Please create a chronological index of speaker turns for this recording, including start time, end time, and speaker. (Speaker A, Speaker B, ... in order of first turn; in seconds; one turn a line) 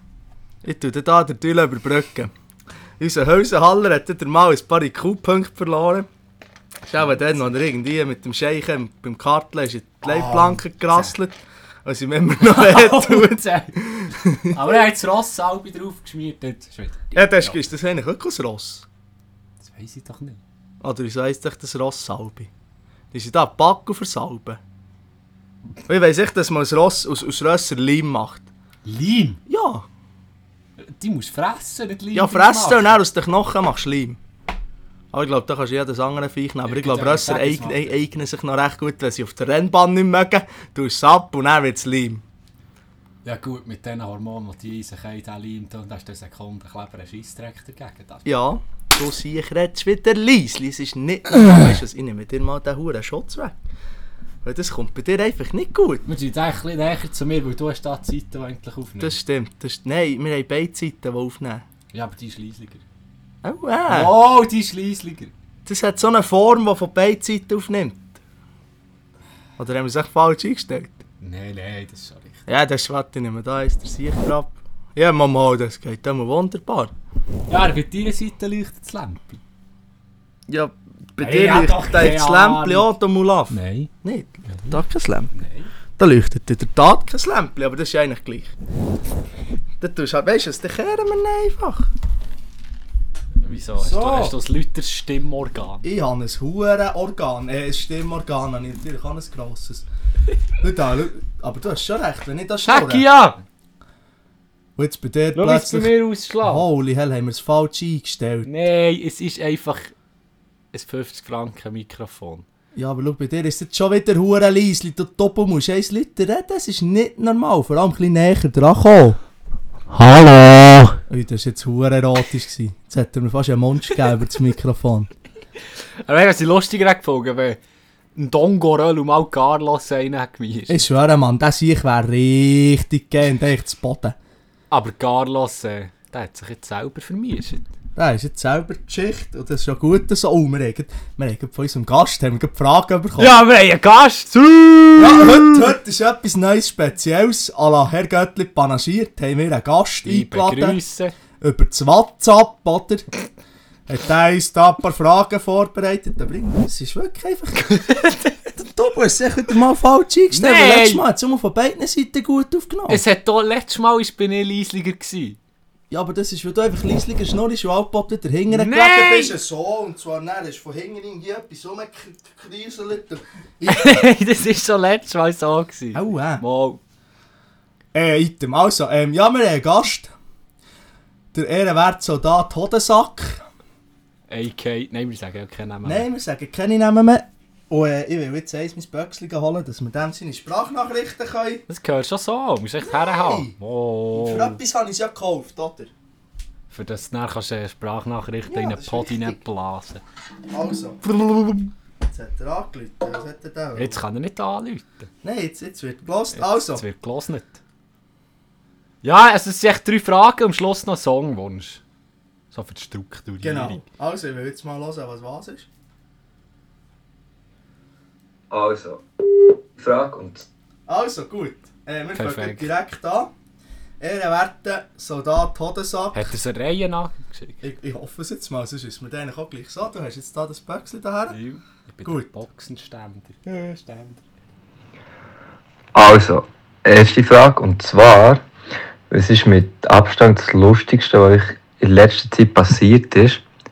Speaker A: 0.6-2.3
Speaker A: 3.0-6.1
Speaker A: 6.9-14.6
Speaker B: 7.0-7.4
Speaker B: 10.0-11.2
Speaker B: 12.4-17.6
Speaker A: 17.1-18.9
Speaker B: 19.6-20.4
Speaker A: 20.8-22.5
Speaker A: 23.1-24.6
Speaker A: 25.9-28.5
Speaker B: 28.9-29.4
Speaker A: 29.5-29.9
Speaker B: 30.8-33.0
Speaker A: 32.1-34.2
Speaker A: 35.1-42.2
Speaker B: 36.6-38.1
Speaker B: 43.2-48.3
Speaker A: 48.2-53.6
Speaker A: 54.4-56.0
Speaker B: 56.0-59.2
Speaker A: 59.0-61.6
Speaker B: 61.9-62.8
Speaker A: 63.4-64.1
Speaker B: 63.9-65.3
Speaker A: 65.7-68.1
Speaker A: 69.6-71.0
Speaker B: 71.2-72.4
Speaker A: 72.5-76.9
Speaker B: 77.5-79.4
Speaker A: 80.5-85.3
Speaker B: 81.2-82.9
Speaker B: 83.5-83.9
Speaker B: 84.5-84.8
Speaker B: 85.3-85.7
Speaker A: 86.0-88.5
Speaker A: 89.8-91.9
Speaker B: 93.4-95.8
Speaker A: 93.8-94.4
Speaker A: 95.8-99.9
Speaker A: 100.6-103.0
Speaker B: 102.7-103.4
Speaker A: 104.8-108.5
Speaker B: 105.3-106.7
Speaker B: 108.5-109.9
Speaker B: 110.7-112.5
Speaker A: 112.8-119.2
Speaker B: 119.9-121.0
Speaker A: 121.1-125.1
Speaker B: 126.1-127.6
Speaker B: 128.2-130.9
Speaker A: 130.7-134.2
Speaker B: 134.7-137.7
Speaker A: 138.0-143.3
Speaker B: 143.2-145.7
Speaker A: 145.0-150.8
Speaker B: 150.0-151.1
Speaker A: 151.4-153.1
Speaker A: 153.9-157.9
Speaker B: 157.7-158.4
Speaker A: 158.6-163.0
Speaker B: 160.3-161.0
Speaker B: 162.9-165.4
Speaker A: 165.9-174.1
Speaker B: 168.5-169.3
Speaker B: 173.7-176.8
Speaker A: 175.9-176.4
Speaker A: 177.9-180.1
Speaker A: 181.3-183.4
Speaker B: 184.3-186.1
Speaker A: 185.8-191.6
Speaker B: 191.7-194.6
Speaker A: 192.9-193.5
Speaker A: 194.1-195.9
Speaker B: 196.7-200.0
Speaker A: 198.5-199.4
Speaker A: 200.5-201.1
Speaker B: 201.3-201.6
Speaker A: 202.0-204.0
Speaker B: 203.8-205.1
Speaker A: 205.2-206.8
Speaker B: 206.3-207.6
Speaker B: 209.0-211.8
Speaker B: 212.5-213.8
Speaker A: 213.4-215.7
Speaker C: 218.5-219.0
Speaker C: 219.8-220.5
Speaker A: 220.9-223.3
Speaker B: 222.1-222.7
Speaker A: 224.0-226.3
Speaker B: 226.1-227.6
Speaker A: 227.6-231.4
Speaker B: 231.3-234.2
Speaker A: 232.1-232.3
Speaker C: 235.9-238.4
Speaker C: 239.1-243.4